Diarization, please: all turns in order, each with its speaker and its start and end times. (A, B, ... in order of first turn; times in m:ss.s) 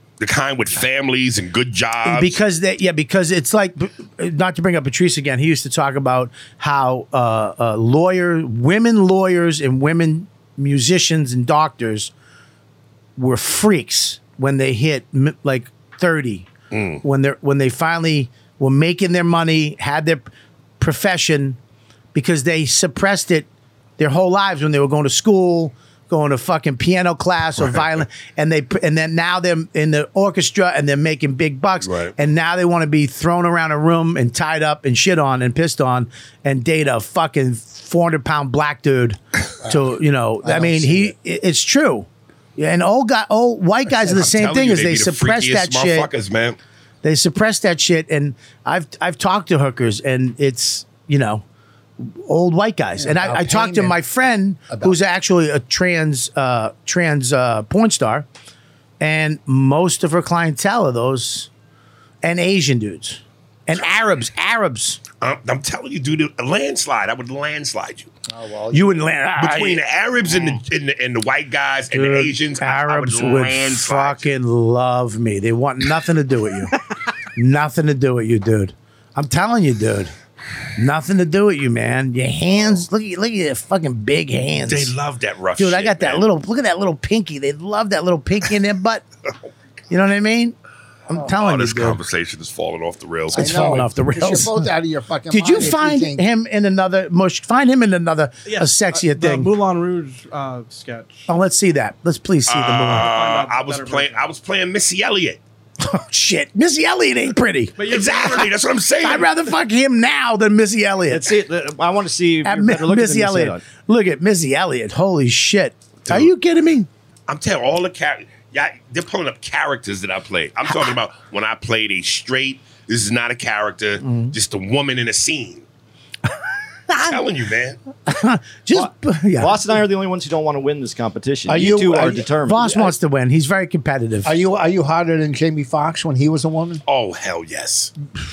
0:00.2-0:02.4 A
0:02.0-0:12.1 B
0:13.2-0:16.5 B
0:16.7-0:17.0 A
0:17.0-0:20.2 B
0:20.8-0:21.6 B
0:22.1-0:23.5 B
0:24.0-0:46.1 B
0:27.6-0:27.9 A
0:31.8-0:32.1 A
0:40.4-0:41.1 C
0:44.1-0:46.6 A
0:47.0-0:51.4 B
0:52.0-0:58.3 B
0:53.0-0:54.0 C
0:54.7-0:55.0 C
0:59.0-1:01.5 B
1:02.2-1:05.0 B
1:05.2-1:08.1 A
1:08.3-1:08.9 C
1:08.7-1:09.8 B
1:09.4-1:14.2 A
1:11.9-1:16.8 B
1:17.4-1:20.1 B
1:20.8-1:24.9 B
1:24.7-1:26.3 A
1:25.6-1:29.0 B
1:29.9-1:30.6 B
1:31.1-1:32.0 B
1:31.3-1:33.7 A
1:33.3-1:36.3 C
1:33.3-1:34.7 B
1:35.3-1:39.5 B
1:38.5-1:41.3 D
1:41.3-1:43.1 B
1:42.5-1:45.4 A
1:42.9-1:44.3 D
1:45.8-1:47.8 B
1:47.8-1:48.5 D
1:47.8-1:49.3 A
1:49.0-1:51.3 B
1:51.1-1:53.6 E
1:52.4-1:56.9 B
1:57.3-2:05.6 A
2:04.0-2:04.3 B
2:06.9-2:07.2 B
2:07.0-2:07.8 A
2:08.1-2:09.8 B
2:08.7-2:12.8 E
2:11.5-2:14.4 B
2:14.2-2:16.8 C
2:16.9-2:17.9 A